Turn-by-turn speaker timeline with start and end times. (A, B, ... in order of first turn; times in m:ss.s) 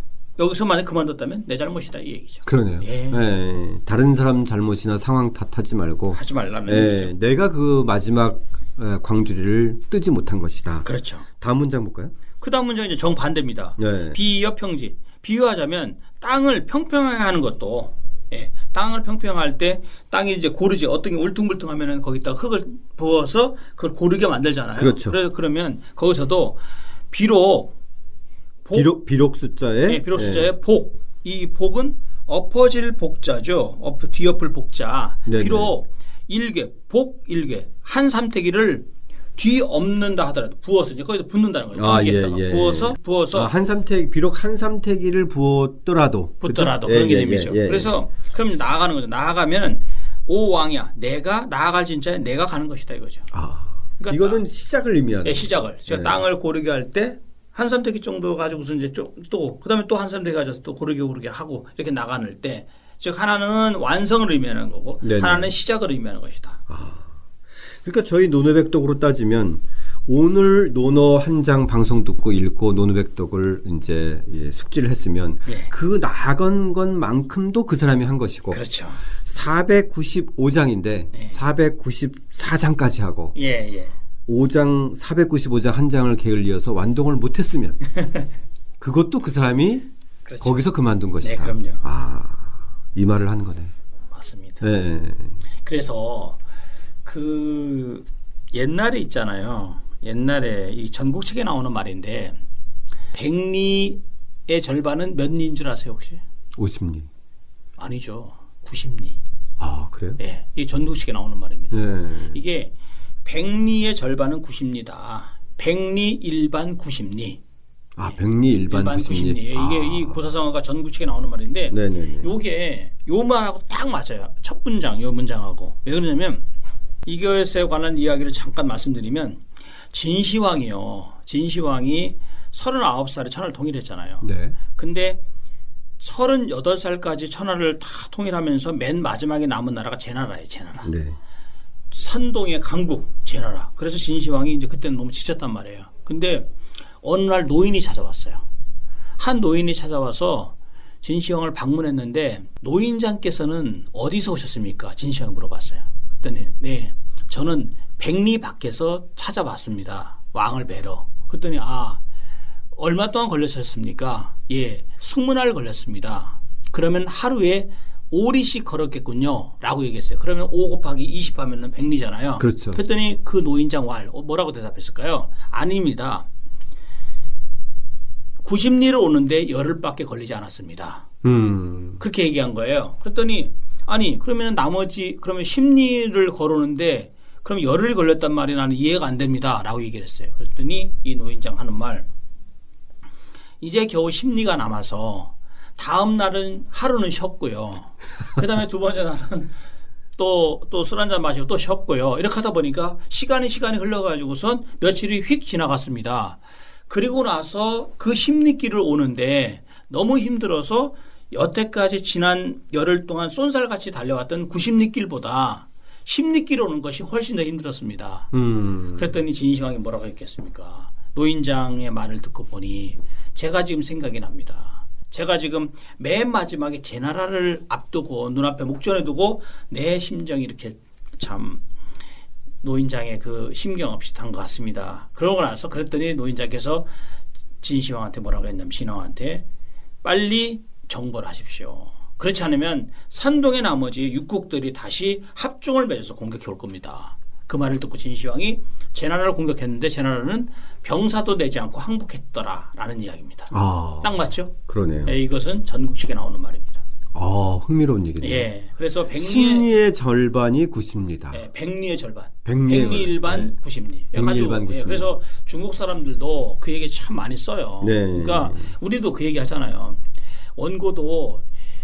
0:00.4-0:03.2 A
0:02.4-0:10.9 B
0:06.1-0:07.1 A
0:10.8-0:11.2 A
0:11.4-0:12.1 B
0:12.4-0:26.6 A
0:13.8-0:14.2 B
0:24.8-0:25.2 B
0:27.1-0:27.7 A
0:28.6-0:28.9 A
0:28.7-0:30.5 B
0:29.9-0:43.5 A
0:35.3-0:35.7 B
0:41.7-0:47.9 B
0:46.4-0:53.3 A
0:53.3-0:56.2 B
0:54.0-0:54.4 A
0:55.2-1:06.6 A
1:05.0-1:05.5 B
1:06.7-1:07.1 B
1:07.8-1:18.6 B
1:15.4-1:15.7 A
1:18.5-1:19.0 A
1:19.2-1:23.4 B
1:21.1-1:21.4 A
1:23.4-1:23.9 A
1:24.3-1:27.8 B
1:28.0-1:28.2 A
1:28.8-1:29.8 B
1:30.2-1:30.7 A
1:30.4-1:33.7 B
1:31.2-1:31.8 A
1:34.1-1:34.6 A
1:34.6-1:35.4 B
1:35.6-1:36.4 A
1:37.0-1:42.4 A
1:43.1-1:46.2 A
1:46.6-1:47.1 B
1:47.8-1:49.2 A
1:49.6-1:50.2 B
1:50.2-1:52.7 A
1:51.7-1:52.4 B
1:53.2-1:57.4 A
1:58.0-2:00.2 B
1:58.0-2:06.4 A
2:01.7-2:02.3 B
2:07.0-2:15.2 A
2:14.2-2:14.6 B
2:16.0-2:20.9 A
2:20.8-2:21.2 B
2:21.9-2:26.5 A
2:27.0-2:28.4 A
2:29.2-2:42.0 A
2:42.8-2:56.2 A
2:52.4-2:52.8 B
2:58.4-3:01.1 A
3:01.2-3:02.0 B
3:02.0-3:12.1 A
3:13.6-3:19.5 A
3:20.2-3:38.3 A
3:38.3-3:39.1 B
3:38.9-3:51.6 A
3:52.6-3:56.9 A
3:57.6-3:59.4 A
4:00.0-4:16.8 A
4:13.5-4:15.2 B
4:17.1-4:18.5 B
4:18.2-4:19.7 A
4:19.1-4:21.4 B
4:21.3-4:30.0 A
4:22.4-4:23.5 B
4:24.1-4:25.1 B
4:27.8-4:28.7 B
4:30.6-4:31.4 A